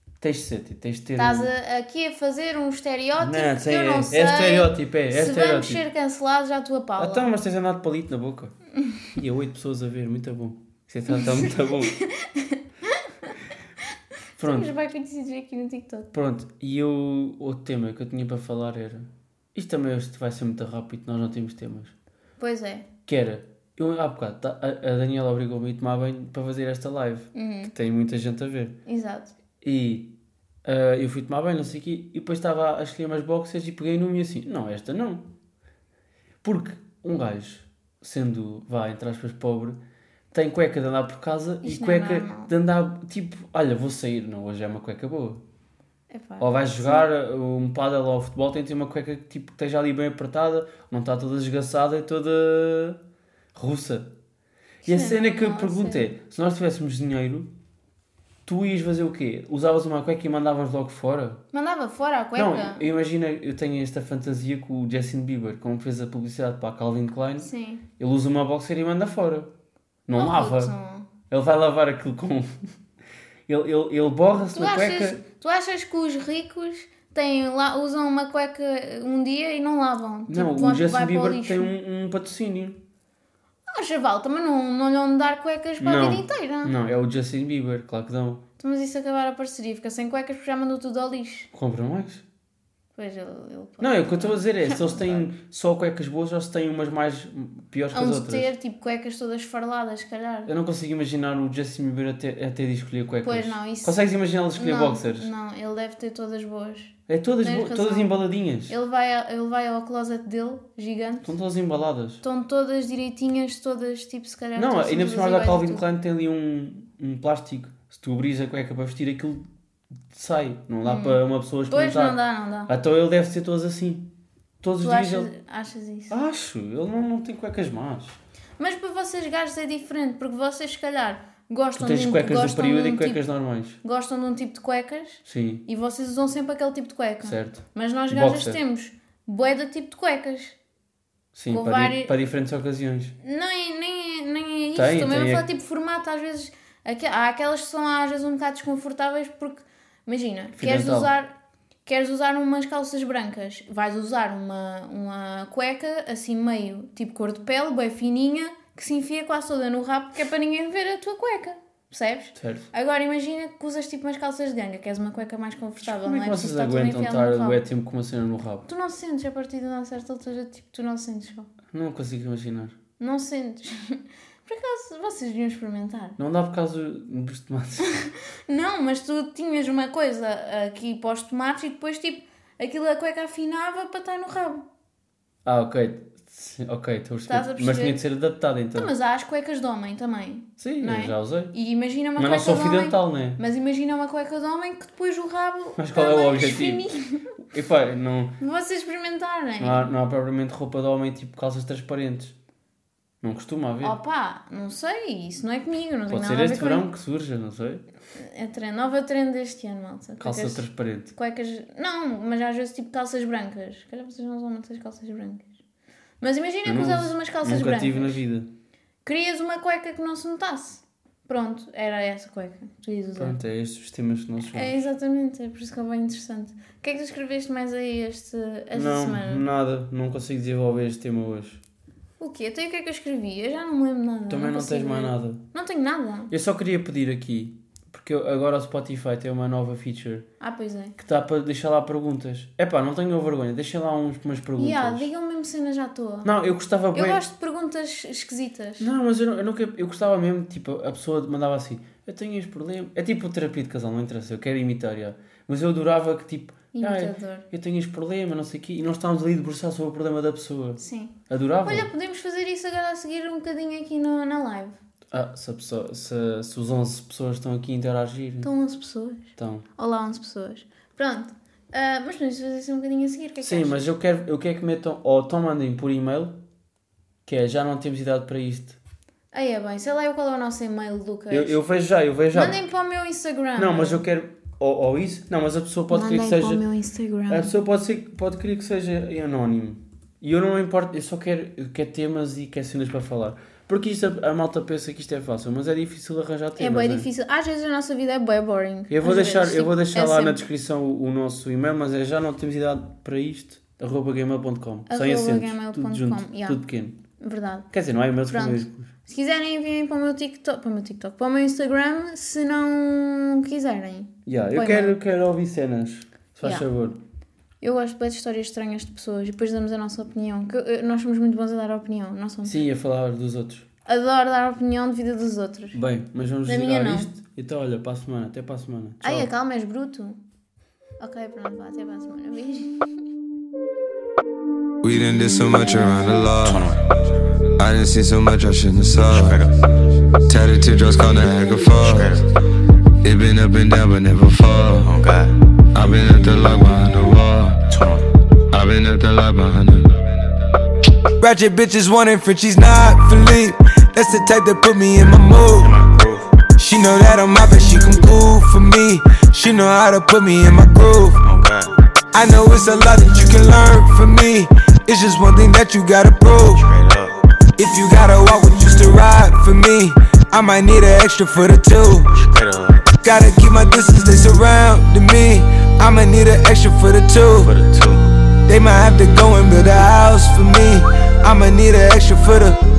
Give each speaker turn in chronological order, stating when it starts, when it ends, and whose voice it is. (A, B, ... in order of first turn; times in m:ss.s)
0:00.2-0:01.5 A
0:01.2-0:07.3 B
0:03.2-0:05.8 A
0:07.0-0:08.5 A
0:09.1-0:12.0 A
0:11.1-0:13.4 B
0:14.4-0:14.7 A
0:14.4-0:16.1 B
0:16.1-0:21.9 A
0:22.4-0:22.9 B
0:23.0-0:28.8 A
0:27.3-0:27.7 B
0:28.8-0:29.3 B
0:29.6-0:30.1 A
0:30.6-0:35.2 A
0:36.4-0:39.8 A
0:40.3-0:45.4 A
0:41.6-0:42.5 B
0:46.1-0:47.1 B
0:46.4-0:53.0 A
0:53.5-0:54.1 A
0:54.8-0:57.5 A
0:54.8-0:56.1 B
0:58.4-1:01.4 A
1:01.5-1:02.8 B
1:02.4-1:09.5 A
1:07.4-1:07.8 B
1:10.1-1:10.7 A
1:10.2-1:11.1 B
1:11.3-1:12.7 A
1:13.5-1:15.2 A
1:14.5-1:21.7 B
1:20.3-1:22.8 A
1:23.7-1:26.7 B
1:25.8-1:28.4 A
1:28.6-1:31.5 B
1:31.5-1:32.2 A
1:33.0-1:35.3 B
1:33.8-1:38.5 A
1:37.9-1:40.5 B
1:40.4-1:45.3 A
1:43.2-1:44.0 B
1:44.5-1:48.1 B
1:47.1-1:48.7 A
1:48.7-1:51.3 B
1:51.2-1:52.2 A
1:52.2-1:55.8 B
1:54.6-1:59.4 A
2:00.1-2:05.3 A
2:00.8-2:02.7 B
2:04.8-2:06.1 B
2:06.1-2:08.2 A
2:08.6-2:13.2 B
2:11.8-2:13.8 A
2:13.8-2:20.6 B
2:15.2-2:15.6 A
2:17.2-2:18.6 A
2:21.3-2:23.1 A
2:21.5-2:22.1 B
2:23.2-2:31.3 B
2:24.7-2:25.4 A
2:30.5-2:31.1 A
2:31.8-2:47.7 B
2:42.3-2:42.7 A
2:45.8-2:48.6 A
2:48.7-2:51.5 B
2:51.7-2:52.7 A
2:53.0-2:56.2 B
2:56.2-2:57.9 A
2:57.8-3:04.6 B
3:05.4-3:08.9 A
3:07.3-3:08.0 B
3:08.7-3:17.3 B
3:10.6-3:11.5 A
3:12.2-3:13.4 A
3:15.8-3:16.8 A
3:17.4-3:18.4 A
3:18.4-3:19.9 B
3:19.6-3:22.3 A
3:23.2-3:24.0 A
3:23.8-3:26.9 B
3:26.1-3:27.8 A
3:28.1-3:35.5 B
3:30.2-3:31.1 A
3:36.2-3:38.2 B
3:36.6-3:38.5 A
3:39.0-3:43.4 B
3:43.2-3:44.8 A
3:44.5-3:49.4 B
3:48.7-3:51.6 A
3:52.2-3:56.3 B
3:54.3-3:55.4 A
3:56.3-4:00.3 A
4:00.4-4:01.0 B
4:01.0-4:05.1 A
4:04.6-4:08.9 B
4:06.2-4:07.2 A
4:08.8-4:21.9 A
4:16.7-4:17.5 B
4:20.8-4:24.8 B
4:25.1-4:28.5 A
4:28.4-4:33.8 B
4:29.4-4:29.6 A
4:33.4-4:36.4 A
4:37.2-4:38.8 A
4:39.3-4:41.6 B
4:41.3-4:42.6 A
4:42.3-4:44.0 B
4:43.6-4:46.6 A
4:45.9-4:47.5 B
4:47.3-4:57.1 A
4:56.6-5:00.4 B
4:58.9-5:07.0 A
5:04.9-5:06.6 B
5:07.2-5:07.7 B
5:07.7-5:08.9 A
5:08.3-5:15.0 B
5:14.2-5:17.0 A
5:16.4-5:16.7 B
5:17.6-5:22.6 B
5:22.4-5:23.6 A
5:23.8-5:25.8 B
5:25.7-5:29.3 A
5:26.4-5:27.1 B
5:29.0-5:30.2 B
5:31.0-5:32.9 B
5:34.8-5:36.7 C
5:36.3-5:36.8 D
5:37.6-5:39.4 C
5:39.1-5:39.6 D
5:40.3-5:42.2 C
5:41.7-5:42.2 D
5:43.0-5:44.9 C
5:44.8-5:45.3 D
5:45.7-5:47.6 C
5:47.7-5:48.0 D
5:48.5-5:50.0 C
5:51.2-5:55.7 E
5:55.6-5:56.3 D
5:56.5-6:01.2 E
6:01.2-6:01.7 D
6:02.1-6:06.7 E
6:06.5-6:07.2 D
6:07.6-6:12.1 E
6:12.1-6:12.9 D
6:13.0-6:17.5 E
6:17.4-6:18.1 D
6:18.5-6:22.6 E